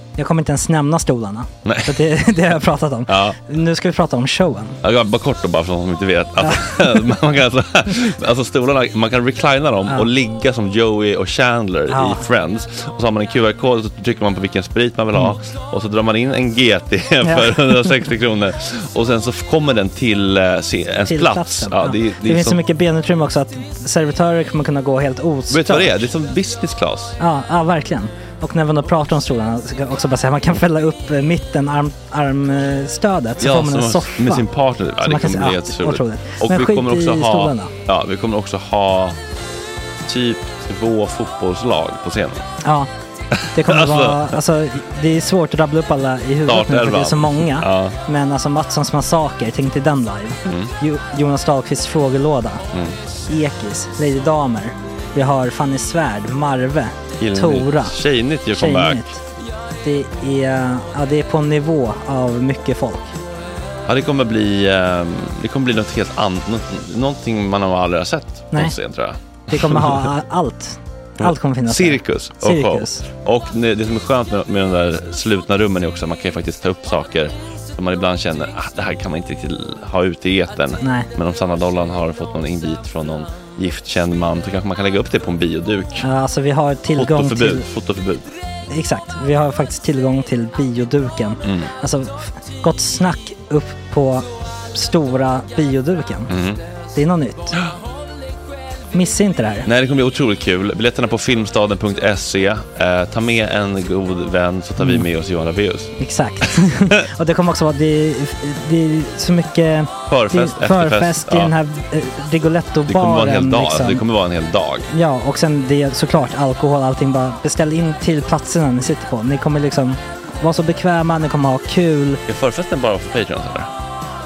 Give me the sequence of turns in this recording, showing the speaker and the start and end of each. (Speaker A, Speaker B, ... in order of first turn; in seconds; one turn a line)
Speaker A: 0.2-4.8
Speaker B: 1.6-2.0
Speaker B: 3.1-3.4
Speaker B: 4.8-22.6
Speaker A: 6.4-7.2
Speaker A: 11.9-12.3
Speaker A: 17.2-18.0
Speaker A: 21.1-26.1
Speaker B: 25.5-27.2
Speaker A: 27.2-37.7
Speaker B: 33.4-39.2
Speaker B: 40.1-42.5
Speaker A: 42.6-42.9
Speaker B: 43.4-44.4
Speaker A: 43.5-52.7
Speaker B: 46.5-48.0
Speaker B: 50.5-50.7
Speaker B: 52.7-53.0
Speaker A: 53.3-59.2
Speaker B: 57.2-59.1
Speaker A: 59.8-63.2
Speaker B: 63.9-70.2
Speaker A: 69.5-73.0
Speaker B: 71.2-86.1
Speaker A: 80.8-81.1
Speaker A: 86.0-87.7
Speaker B: 87.0-88.3
Speaker A: 88.7-96.4
Speaker B: 91.4-91.7
Speaker B: 96.3-96.6
Speaker A: 96.9-97.6
Speaker A: 98.9-99.7
Speaker B: 99.7-107.0
Speaker A: 104.8-105.1
Speaker A: 106.0-114.0
Speaker B: 110.1-111.5
Speaker B: 112.9-114.9
Speaker A: 114.9-122.2
Speaker B: 122.3-123.7